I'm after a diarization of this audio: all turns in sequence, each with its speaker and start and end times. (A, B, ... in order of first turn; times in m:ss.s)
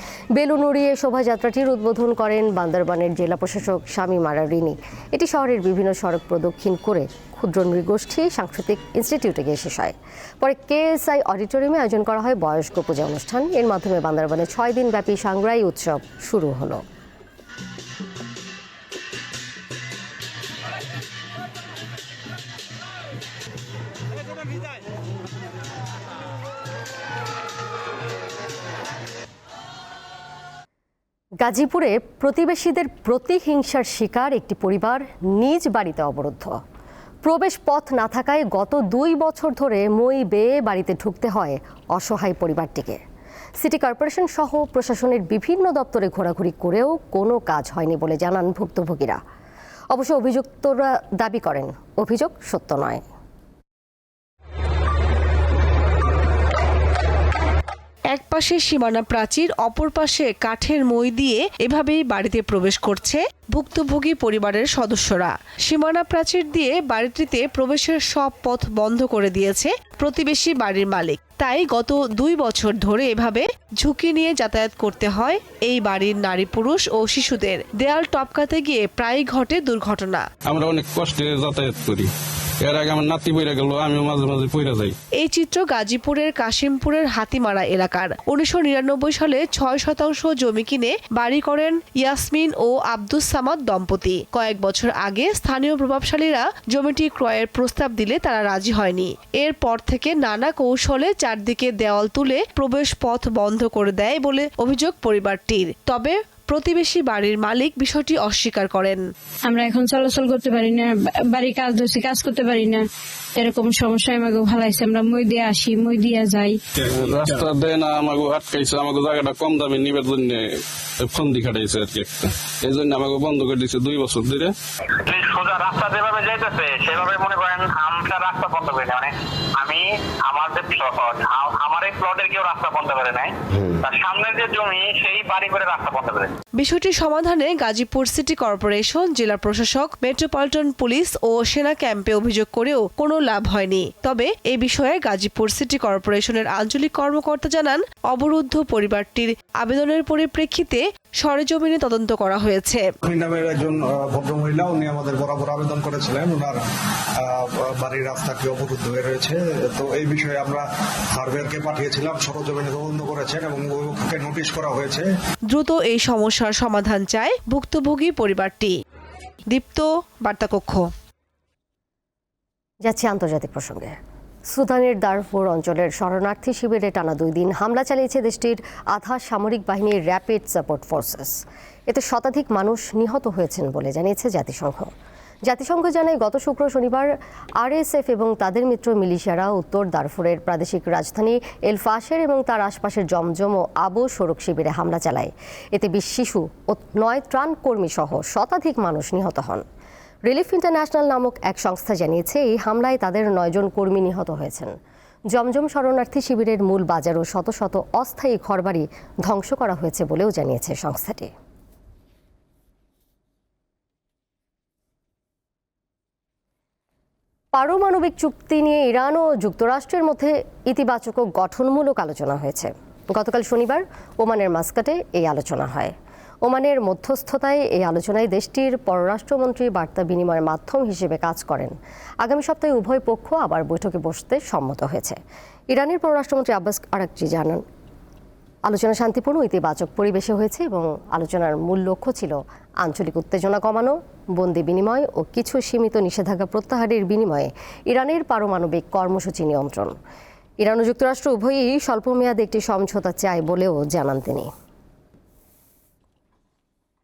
0:00.3-0:16.8 A
0:31.4-0:36.5 A
0:37.2-0:43.0 A
0:43.6-0:49.2 A
0:49.9-0:53.0 A
0:58.1-1:20.2 B
1:20.5-1:22.1 C
1:22.6-1:24.9 C
1:25.2-1:49.0 B
1:49.5-1:52.8 D
1:53.4-1:56.5 D
1:56.8-2:04.5 C
2:04.8-2:16.3 E
2:16.6-2:32.9 B
2:33.0-2:36.6 F
2:37.2-2:45.1 F
2:45.5-2:48.7 B
2:49.5-2:50.8 B
2:52.8-2:54.0 A
2:54.5-3:04.9 A
3:05.4-3:19.6 A
3:20.2-3:24.8 A
3:25.3-3:31.3 A
3:37.5-3:45.9 A
3:46.4-3:55.2 A
3:55.7-3:57.6 A
3:58.6-4:10.0 A
4:10.6-4:14.5 A